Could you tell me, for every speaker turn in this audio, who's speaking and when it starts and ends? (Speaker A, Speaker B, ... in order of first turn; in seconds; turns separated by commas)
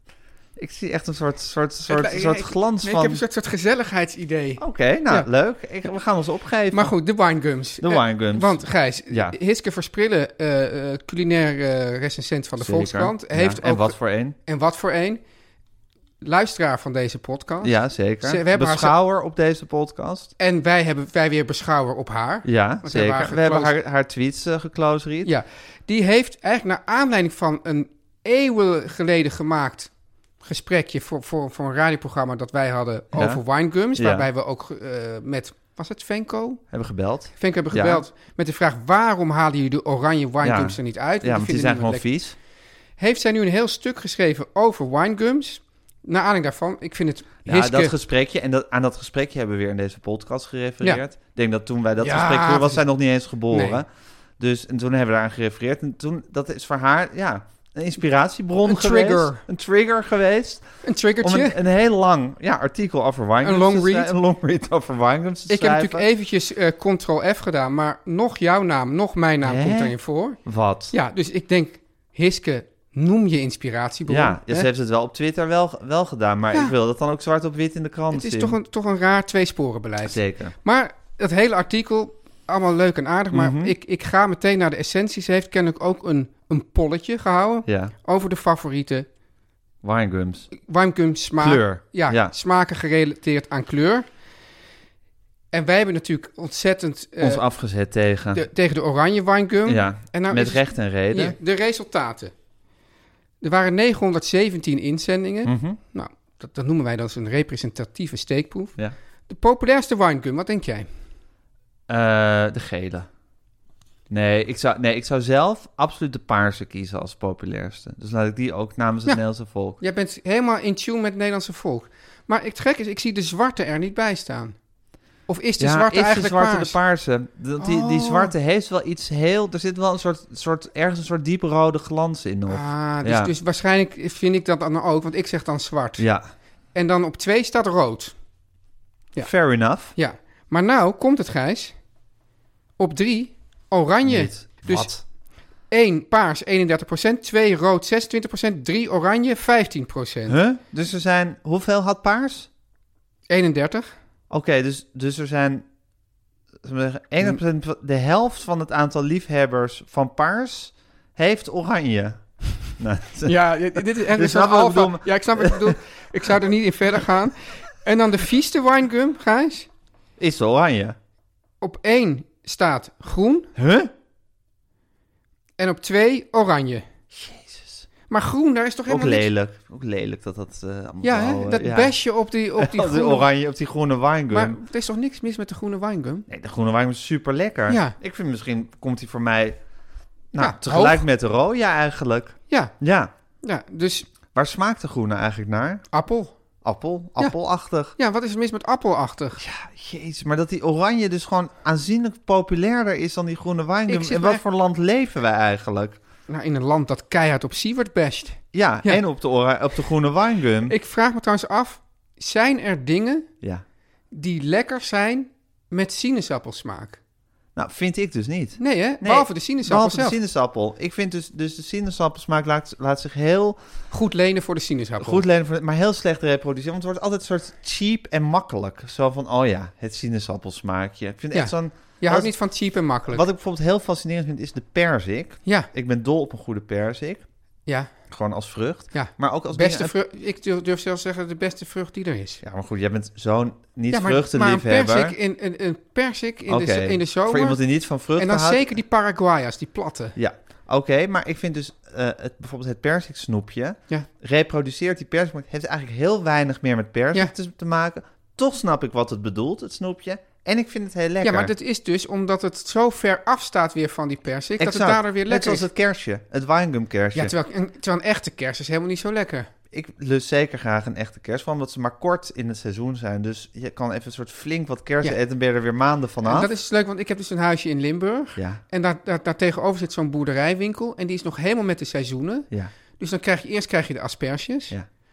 Speaker A: 0.6-3.2, Speaker B: 1.9-5.3, Speaker A: 4.6-7.0, Speaker B: 6.7-15.2, Speaker A: 7.8-9.4, Speaker A: 12.6-14.4, Speaker B: 16.2-18.9, Speaker A: 17.6-20.3, Speaker B: 20.4-23.7, Speaker A: 22.4-25.3, Speaker B: 25.2-36.6, Speaker A: 33.1-33.4, Speaker A: 33.9-34.3, Speaker A: 36.7-38.0, Speaker B: 37.4-42.0, Speaker A: 40.4-42.4, Speaker B: 43.0-47.9, Speaker A: 47.5-53.9, Speaker B: 52.0-52.8, Speaker B: 53.5-53.8, Speaker A: 54.4-60.6, Speaker B: 58.6-59.4, Speaker B: 60.8-61.6, Speaker A: 61.2-66.1, Speaker B: 63.4-64.1, Speaker B: 65.5-70.4, Speaker A: 69.4-70.9, Speaker B: 70.9-74.7, Speaker A: 74.1-78.6, Speaker B: 78.1-89.1, Speaker A: 80.0-80.5, Speaker A: 83.3-83.7, Speaker A: 87.7-87.9, Speaker A: 89.8-90.5, Speaker B: 90.5-94.1, Speaker A: 91.4-92.3, Speaker B: 95.5-97.5, Speaker A: 97.2-98.5, Speaker B: 98.3-102.3, Speaker A: 99.7-101.4, Speaker B: 103.4-108.8, Speaker A: 105.5-105.8, Speaker B: 109.3-110.9, Speaker A: 111.9-113.1, Speaker A: 114.1-119.8, Speaker B: 119.8-124.6, Speaker B: 125.3-126.8, Speaker A: 125.6-133.3, Speaker B: 127.6-128.3, Speaker B: 132.5-136.1, Speaker A: 136.0-136.2, Speaker B: 136.7-138.2, Speaker A: 139.2-139.9, Speaker B: 139.9-141.8, Speaker B: 142.8-144.9, Speaker A: 144.0-145.0, Speaker B: 145.7-150.4, Speaker A: 150.3-152.5, Speaker B: 153.3-153.9, Speaker A: 154.3-155.7, Speaker A: 156.6-165.8, Speaker B: 163.2-169.7, Speaker A: 170.2-171.0, Speaker B: 171.6-173.5, Speaker A: 173.6-173.9, Speaker B: 175.6-176.8, Speaker A: 177.1-177.9, Speaker B: 178.1-179.3, Speaker A: 178.9-181.9, Speaker B: 181.0-183.3, Speaker A: 182.6-184.6, Speaker B: 184.3-186.3, Speaker A: 186.3-189.6, Speaker B: 187.7-188.0, Speaker A: 190.3-193.1, Speaker B: 190.4-191.1, Speaker B: 193.4-194.1, Speaker A: 194.3-195.9, Speaker B: 195.9-196.3, Speaker A: 196.6-197.9, Speaker B: 198.0-199.4, Speaker A: 199.4-206.0, Speaker B: 203.9-204.4, Speaker B: 206.3-209.0, Speaker A: 208.5-210.8, Speaker B: 210.7-213.3, Speaker B: 214.1-217.0, Speaker A: 217.6-223.6, Speaker B: 218.6-220.2, Speaker B: 223.9-225.2, Speaker A: 225.0-237.3, Speaker B: 231.3-233.2, Speaker B: 237.7-237.9, Speaker A: 238.1-239.9, Speaker B: 238.9-242.4, Speaker A: 242.4-245.2, Speaker B: 243.9-247.6, Speaker A: 246.5-248.8, Speaker B: 248.2-250.2, Speaker A: 250.2-261.5, Speaker B: 261.2-265.7, Speaker A: 264.6-267.3, Speaker B: 267.1-269.5, Speaker A: 269.7-276.5, Speaker B: 276.2-284.8, Speaker A: 278.4-278.6